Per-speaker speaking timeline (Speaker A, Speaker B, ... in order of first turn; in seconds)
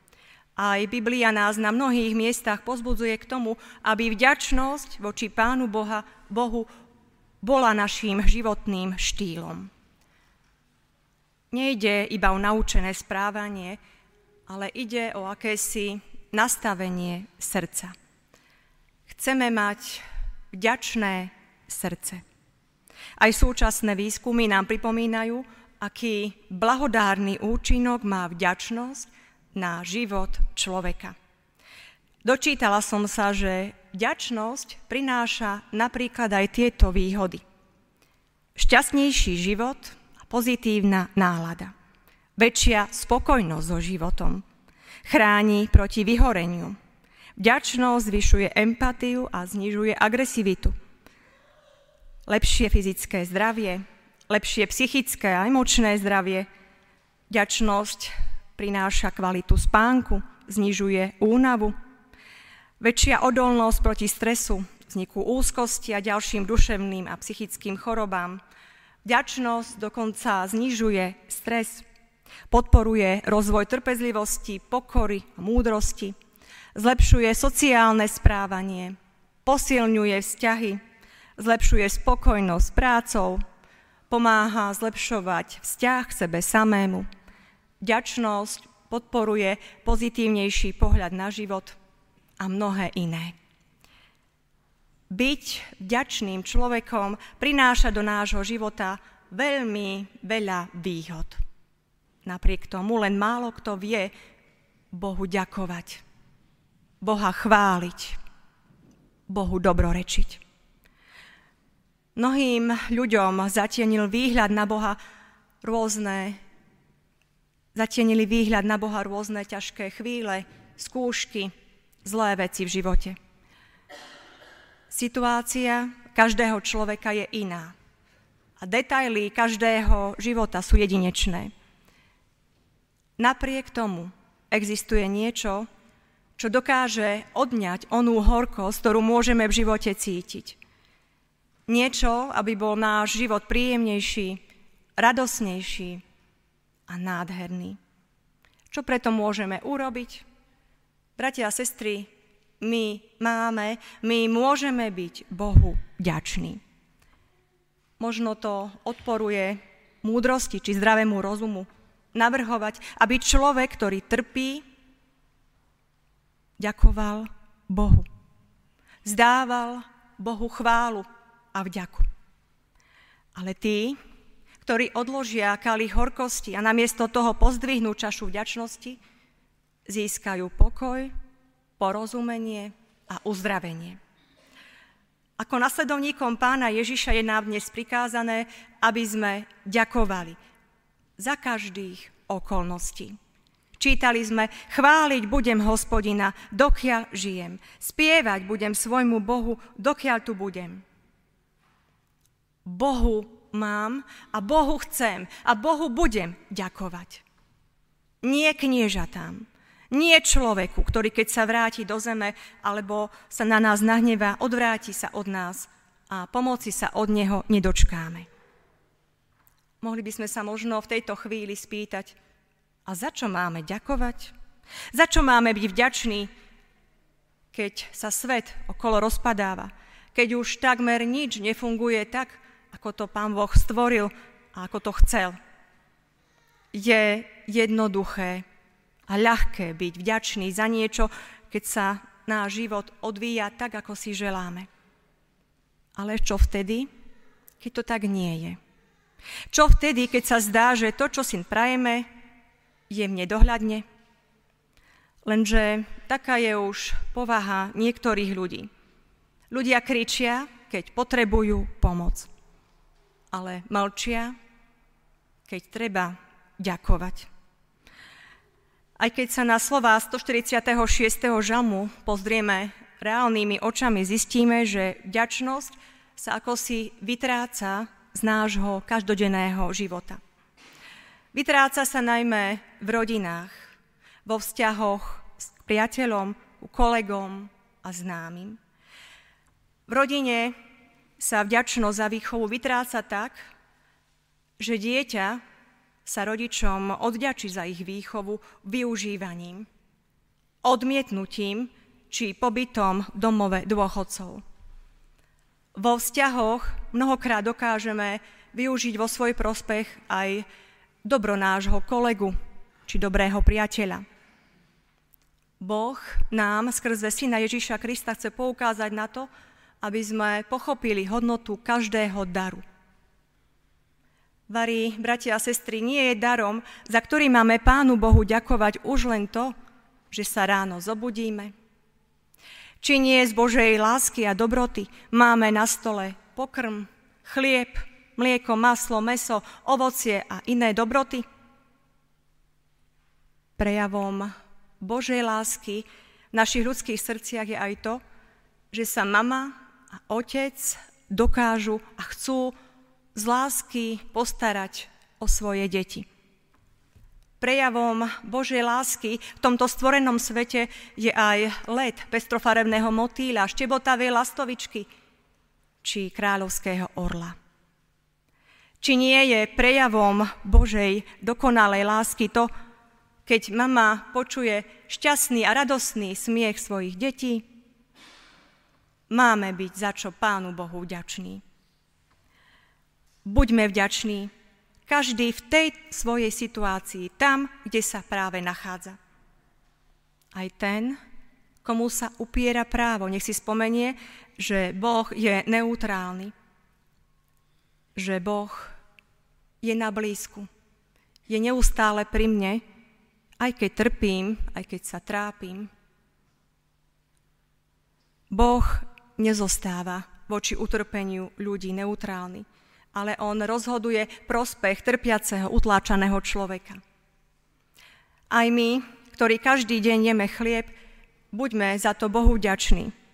Speaker A: 0.6-6.7, 7.4-9.7, 11.5-13.8, 14.5-17.9, 19.1-22.2, 23.2-31.1, 32.2-37.4, 38.6-41.7, 42.4-44.4, 45.1-46.8, 47.4-50.7, 52.3-56.5, 57.3-61.8, 62.8-68.4, 69.0-71.8, 72.5-76.2, 76.8-80.8, 81.4-83.4, 84.1-87.1, 87.8-91.8, 92.4-93.4, 95.1-101.4, 102.2-104.1, 104.9-106.0, 107.0-108.2, 109.3-110.4, 112.2-115.0, 115.6-116.4, 117.8-121.5, 122.0-123.2, 124.9-127.7, 128.6-131.5, 133.2-135.7, 136.4-140.6, 141.7-144.4, 145.0-146.0, 146.9-147.8, 148.7-150.2, 151.2-156.6, 158.0-164.6, 166.6-168.1, 169.1-172.1, 173.3-174.0, 174.6-179.0, 179.9-181.1, 181.8-184.0, 185.4-190.4, 191.2-193.2, 193.8-200.8, 202.7-207.2, 208.2-218.3, 219.8-222.2, 222.9-224.3, 224.9-226.3, 227.5-235.4, 236.7-238.4, 239.1-244.7, 246.0-246.9, 247.6-248.6, 249.5-252.1, 252.9-253.8, 255.2-258.7, 259.5-262.3, 263.3-264.4, 265.5-267.3, 269.0-280.2, 281.3-283.7, 284.2-288.6, 289.9-290.6, 291.2-293.5, 294.6-295.4, 296.1-299.7, 300.6-304.4, 305.8-310.4, 311.0-312.4, 312.9-314.0, 315.6-319.3, 319.8-322.6, 324.5-329.5, 330.1-331.5, 332.8-341.2, 343.6-348.0, 348.7-352.6, 353.1-356.1, 357.4-364.9, 365.8-367.4, 368.8-372.5, 373.3-377.4, 379.1-381.4, 383.2-384.3, 384.9-389.0, 390.3-391.0, 391.6-396.3, 398.0-398.8, 399.6-400.5, 401.3-402.6, 403.4-405.7, 408.3-416.8, 418.3-420.7, 421.3-422.9